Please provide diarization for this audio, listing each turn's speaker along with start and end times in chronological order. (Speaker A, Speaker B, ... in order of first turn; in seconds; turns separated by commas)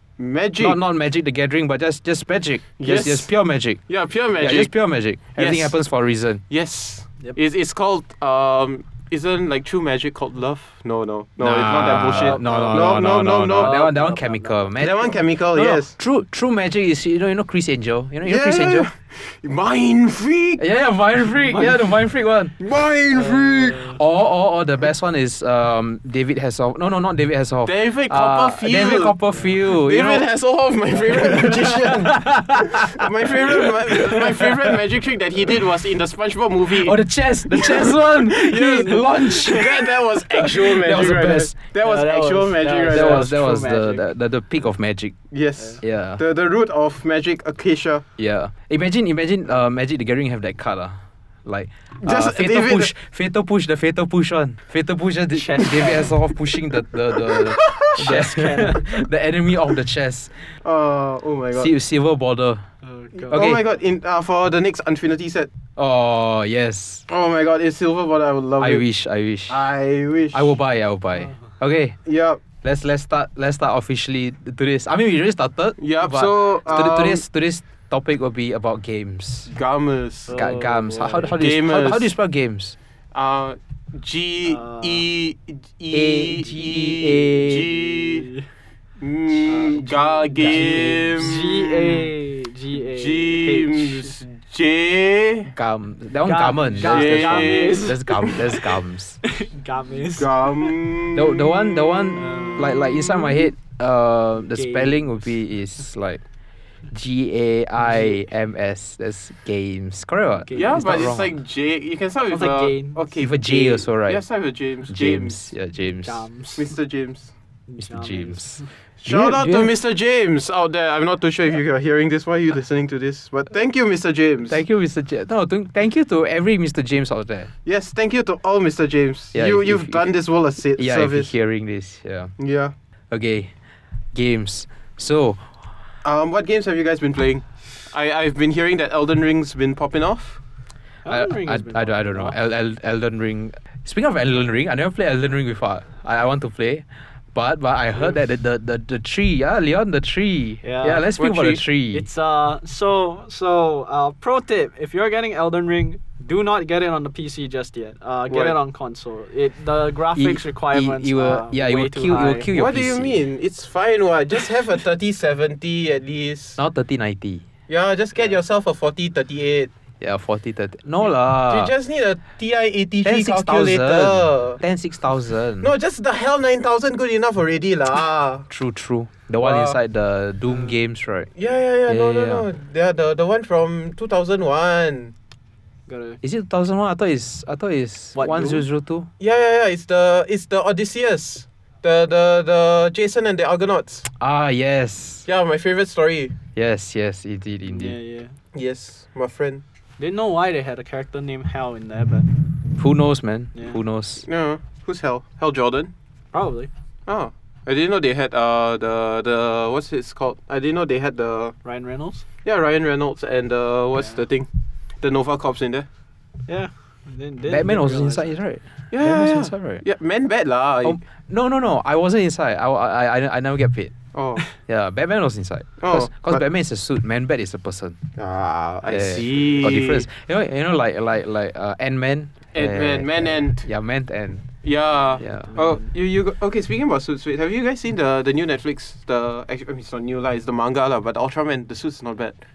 Speaker A: 0.2-0.8, Speaker B: 0.6-3.8, Speaker A: 2.8-3.3, Speaker A: 3.9-4.7, Speaker B: 4.4-6.4, Speaker A: 5.3-5.8, Speaker A: 6.5-13.8, Speaker B: 11.4-18.9, Speaker C: 12.0-14.8, Speaker A: 14.8-15.9, Speaker A: 18.2-20.6, Speaker B: 20.6-22.5, Speaker C: 21.5-21.7, Speaker A: 22.6-23.9, Speaker C: 23.1-24.0, Speaker B: 23.9-30.2, Speaker A: 27.6-29.1, Speaker A: 29.7-37.0, Speaker B: 31.1-34.8, Speaker B: 36.7-39.9, Speaker A: 37.5-43.3, Speaker B: 40.5-41.6, Speaker C: 41.8-44.0, Speaker B: 42.9-45.2, Speaker A: 45.3-48.0, Speaker B: 45.8-46.2, Speaker B: 48.2-60.4, Speaker A: 52.0-52.9, Speaker C: 55.3-56.1, Speaker A: 57.3-58.2, Speaker C: 58.0-58.8, Speaker A: 60.6-61.7, Speaker B: 61.5-62.6, Speaker C: 62.8-63.4, Speaker B: 63.3-63.6, Speaker A: 63.3-65.5, Speaker B: 65.8-67.0, Speaker A: 67.1-68.8, Speaker B: 68.6-69.6, Speaker A: 69.5-70.5, Speaker B: 70.3-72.0, Speaker A: 72.0-72.4, Speaker B: 72.6-79.5, Speaker A: 75.8-77.2, Speaker A: 79.5-80.3, Speaker C: 80.3-81.4, Speaker B: 80.3-82.8, Speaker A: 81.4-82.1, Speaker A: 83.1-88.3, Speaker C: 84.5-85.0, Speaker B: 85.9-87.8, Speaker C: 87.9-88.5, Speaker A: 89.0-92.1, Speaker C: 89.5-94.1, Speaker B: 89.5-91.4, Speaker A: 92.9-95.5, Speaker B: 95.5-99.2, Speaker C: 96.2-98.6, Speaker A: 96.8-97.9, Speaker C: 99.2-100.7, Speaker A: 100.2-102.1, Speaker B: 101.1-106.2, Speaker C: 102.2-102.9, Speaker A: 103.0-103.4, Speaker C: 104.5-105.0, Speaker B: 106.9-111.3, Speaker C: 110.4-111.2, Speaker A: 110.5-115.4, Speaker C: 112.3-113.0, Speaker B: 113.2-114.2, Speaker B: 114.9-116.2, Speaker C: 116.0-116.7, Speaker A: 116.6-117.3, Speaker C: 117.7-118.7, Speaker B: 117.8-119.7, Speaker A: 119.0-124.6, Speaker B: 124.5-127.5, Speaker A: 127.6-131.3, Speaker B: 129.3-130.1, Speaker B: 130.8-132.3, Speaker A: 132.4-132.7, Speaker B: 133.1-133.5, Speaker B: 134.1-135.4, Speaker A: 136.0-140.4, Speaker C: 141.0-142.3, Speaker B: 141.1-152.1, Speaker C: 150.6-151.1, Speaker A: 151.2-151.6, Speaker C: 151.9-162.5, Speaker A: 158.3-158.5, Speaker B: 160.2-163.2, Speaker A: 162.5-166.6, Speaker B: 166.6-167.4, Speaker A: 167.7-169.7, Speaker B: 170.0-171.7, Speaker A: 171.5-174.6, Speaker B: 173.0-175.7, Speaker A: 175.6-178.5, Speaker B: 178.5-181.3, Speaker A: 179.4-179.8, Speaker A: 181.4-185.1, Speaker B: 181.9-182.4, Speaker C: 185.9-186.2, Speaker B: 186.2-189.1, Speaker C: 188.1-188.6, Speaker A: 189.2-194.1, Speaker B: 194.2-195.2, Speaker A: 195.2-196.3, Speaker B: 196.5-197.9, Speaker C: 197.6-198.3, Speaker A: 198.5-199.6, Speaker C: 200.0-202.3, Speaker B: 202.8-204.2, Speaker A: 204.2-205.9, Speaker C: 206.3-206.7, Speaker A: 207.1-211.6, Speaker C: 211.6-212.2, Speaker A: 212.4-214.5, Speaker A: 215.0-215.9, Speaker C: 216.5-218.3, Speaker B: 217.5-219.8, Speaker A: 218.9-221.0, Speaker B: 220.8-223.9, Speaker A: 224.1-224.4, Speaker B: 224.6-228.0, Speaker A: 225.8-226.4, Speaker A: 228.2-230.1, Speaker B: 228.9-234.5, Speaker A: 232.5-233.7, Speaker A: 234.6-242.4, Speaker B: 235.2-235.5, Speaker C: 235.3-235.9